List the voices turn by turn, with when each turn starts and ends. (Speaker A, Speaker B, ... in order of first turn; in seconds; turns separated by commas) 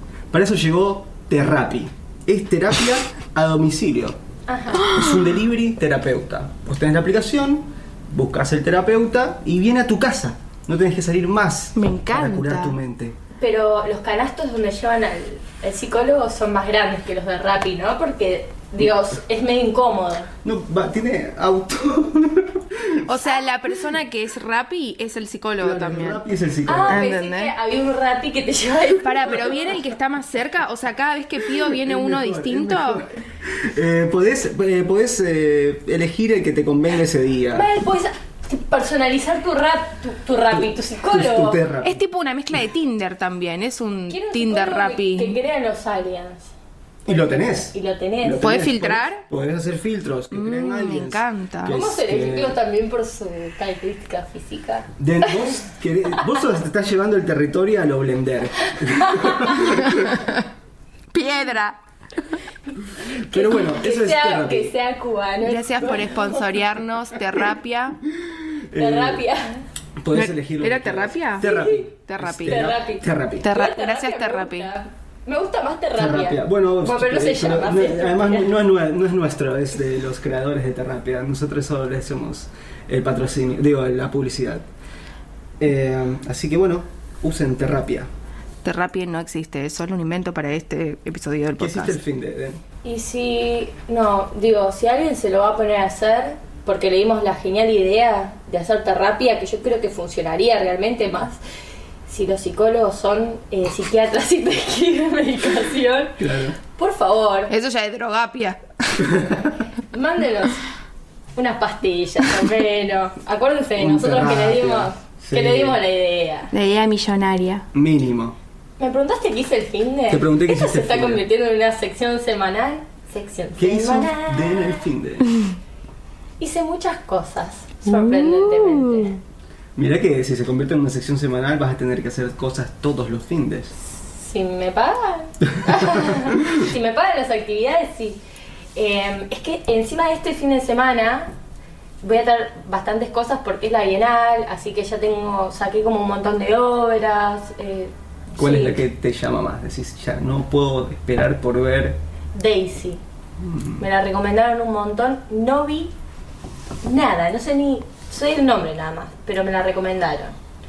Speaker A: 0.3-4.2, Speaker B: 4.5-4.9, Speaker A: 4.7-13.2, Speaker C: 11.7-12.8, Speaker B: 13.4-20.3, Speaker A: 20.4-23.1, Speaker C: 23.1-26.2, Speaker A: 25.6-27.1, Speaker B: 26.6-29.7, Speaker C: 26.9-27.5, Speaker C: 29.0-33.0, Speaker A: 31.6-37.7, Speaker B: 37.5-41.6, Speaker A: 40.5-42.0, Speaker C: 41.8-45.4, Speaker B: 44.1-46.5, Speaker B: 47.0-48.5, Speaker A: 47.0-52.6, Speaker C: 48.4-49.2, Speaker C: 50.3-51.8, Speaker B: 51.6-55.5, Speaker A: 55.0-60.3, Speaker B: 58.9-59.6, Speaker C: 61.1-61.8, Speaker A: 63.0-64.7, Speaker B: 63.3-66.5, Speaker C: 65.4-68.0, Speaker A: 68.2-69.2, Speaker B: 68.8-69.6, Speaker A: 70.0-73.5, Speaker C: 70.1-72.7, Speaker B: 71.4-71.8, Speaker B: 72.5-78.5, Speaker C: 73.4-74.7, Speaker A: 76.0-84.7, Speaker A: 85.6-88.1, Speaker C: 88.6-92.0, Speaker A: 91.6-92.6, Speaker B: 92.8-101.4, Speaker B: 102.0-107.5, Speaker A: 106.2-106.6, Speaker C: 107.5-109.1, Speaker A: 109.0-109.5, Speaker B: 109.9-110.6, Speaker B: 111.3-116.5, Speaker A: 113.8-115.8, Speaker C: 116.5-117.7, Speaker A: 117.7-118.4, Speaker B: 118.8-124.8, Speaker A: 120.1-121.2, Speaker A: 123.5-125.4, Speaker B: 126.4-129.2, Speaker C: 127.8-129.1, Speaker A: 129.8-133.7, Speaker B: 133.9-138.2, Speaker B: 138.7-141.3, Speaker B: 142.0-148.8, Speaker A: 148.4-152.0, Speaker B: 152.3-153.0, Speaker A: 153.4-153.8, Speaker B: 153.8-155.9, Speaker B: 156.8-160.3